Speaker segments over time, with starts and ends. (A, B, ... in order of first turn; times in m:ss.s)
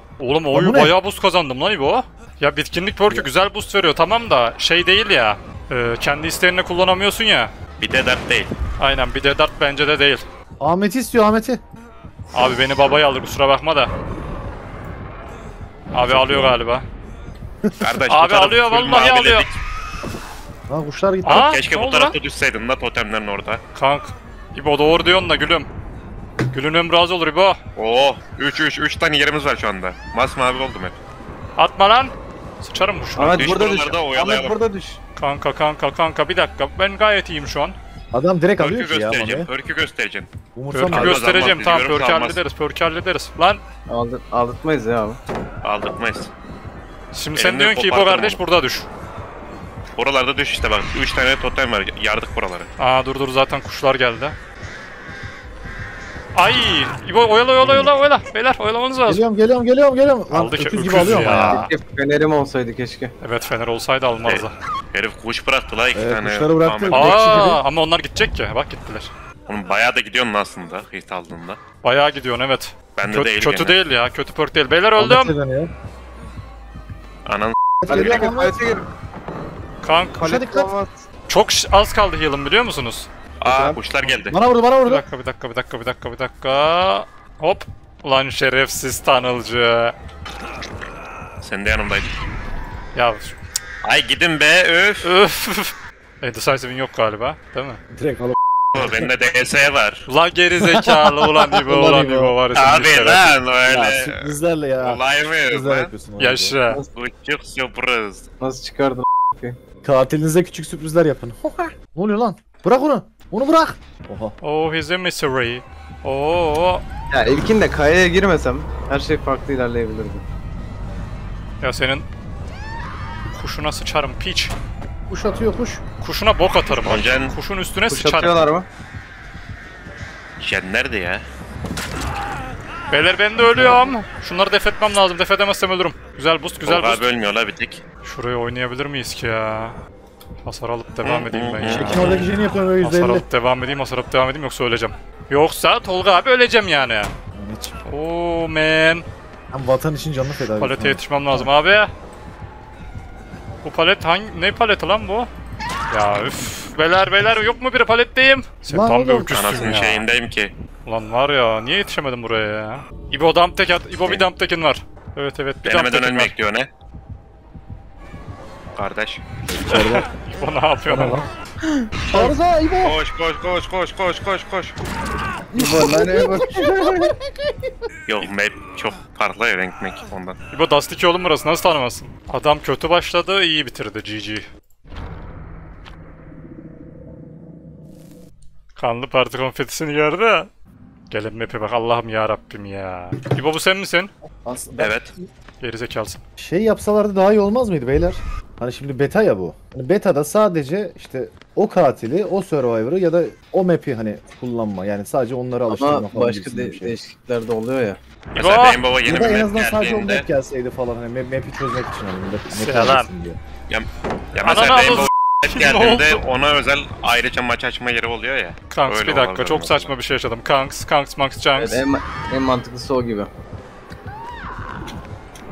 0:00.2-0:07.5 A
0:00.5-0:00.9 B
0:07.8-0:08.5 C
0:08.8-0:10.2 A
0:10.6-0:11.6 B
0:12.3-0:13.9 A
0:15.9-0:16.9 A
0:16.1-0:16.6 B
0:17.6-0:17.9 B
0:17.8-0:19.6 C
0:18.1-0:19.5 A
0:20.7-0:21.6 B
0:21.2-0:22.2 A
0:21.3-0:23.6 C
0:23.8-0:25.7 A
0:26.5-0:27.6 A
0:27.8-0:30.9 C
0:31.6-0:33.5 A
0:33.2-0:35.0 D
0:33.3-0:34.6 C
0:35.2-0:37.8 A
0:38.1-0:39.5 B
0:38.6-0:40.3 C
0:40.6-0:41.2 B
0:40.7-0:43.6 A
0:40.9-0:42.4 C
0:43.9-0:45.2 D
0:45.6-0:46.3 C
0:47.1-0:48.9 A
0:47.3-0:48.4 C
0:50.0-0:52.7 C
0:52.8-0:54.4 A
0:56.4-0:59.2 A
0:57.6-0:57.9 B
0:59.1-1:01.6 B
1:00.3-1:01.7 A
1:01.2-1:03.1 D
1:03.2-1:04.5 A
1:04.2-1:07.5 C
1:05.9-1:07.6 B
1:06.9-1:09.1 A
1:09.5-1:11.6 C
1:11.8-1:15.3 A
1:13.0-1:13.8 C
1:15.0-1:15.7 B
1:17.2-1:18.3 C
1:17.8-1:18.6 B
1:17.9-1:18.9 D
1:19.8-1:20.2 A
1:20.2-1:21.0 D
1:20.2-1:20.7 B
1:21.3-1:23.1 A
1:23.4-1:24.4 C
1:23.5-1:23.8 D
1:23.5-1:25.0 B
1:24.9-1:29.9 A
1:31.4-1:32.1 C
1:32.9-1:33.4 A
1:33.8-1:35.1 C
1:35.0-1:37.8 A
1:37.9-1:39.1 B
1:38.7-1:40.0 C
1:40.1-1:43.4 A
1:40.6-1:42.4 B
1:42.5-1:45.9 C
1:43.7-1:46.6 B
1:46.2-1:46.8 A
1:46.9-1:48.3 C
1:48.4-1:49.6 D
1:49.8-1:54.4 B
1:54.4-1:56.8 A
1:57.1-2:00.2 D
2:01.6-2:02.1 A
2:03.3-2:04.5 A
2:05.1-2:05.8 B
2:06.0-2:08.4 A
2:06.7-2:07.4 C
2:07.9-2:08.7 D
2:10.4-2:11.2 C
2:12.9-2:17.1 A
2:13.4-2:13.9 B
2:16.6-2:17.8 C
2:18.0-2:19.8 A
2:20.4-2:22.1 A
2:21.0-2:22.3 C
2:21.6-2:23.2 B
2:22.8-2:27.1 A
2:27.3-2:27.7 B
2:27.8-2:29.1 A
2:29.5-2:31.5 B
2:30.6-2:31.9 A
2:33.6-2:35.3 A
2:35.9-2:40.1 A
2:38.7-2:39.4 B
2:39.3-2:40.5 C
2:40.9-2:46.4 A
2:45.6-2:46.7 C
2:48.8-2:49.2 C
2:49.5-2:50.1 B
2:49.7-2:51.3 A
2:50.9-2:51.3 B
2:51.6-2:52.3 D
2:52.1-2:53.0 B
2:52.8-2:54.8 C
2:55.5-2:57.1 D
2:55.5-2:57.7 B
2:58.1-3:00.4 C
3:00.5-3:04.5 A
3:08.8-3:10.5 A
3:11.1-3:14.1 A
3:14.4-3:15.2 B
3:14.8-3:15.1 C
3:15.6-3:16.2 A
3:16.4-3:27.0 B
3:25.7-3:28.0 D
3:28.3-3:30.2 C
3:28.4-3:28.8 A
3:29.0-3:33.4 B
3:32.5-3:33.1 A
3:33.7-3:39.9 C
3:34.4-3:36.2 A
3:38.7-3:41.8 A
3:41.6-3:43.3 D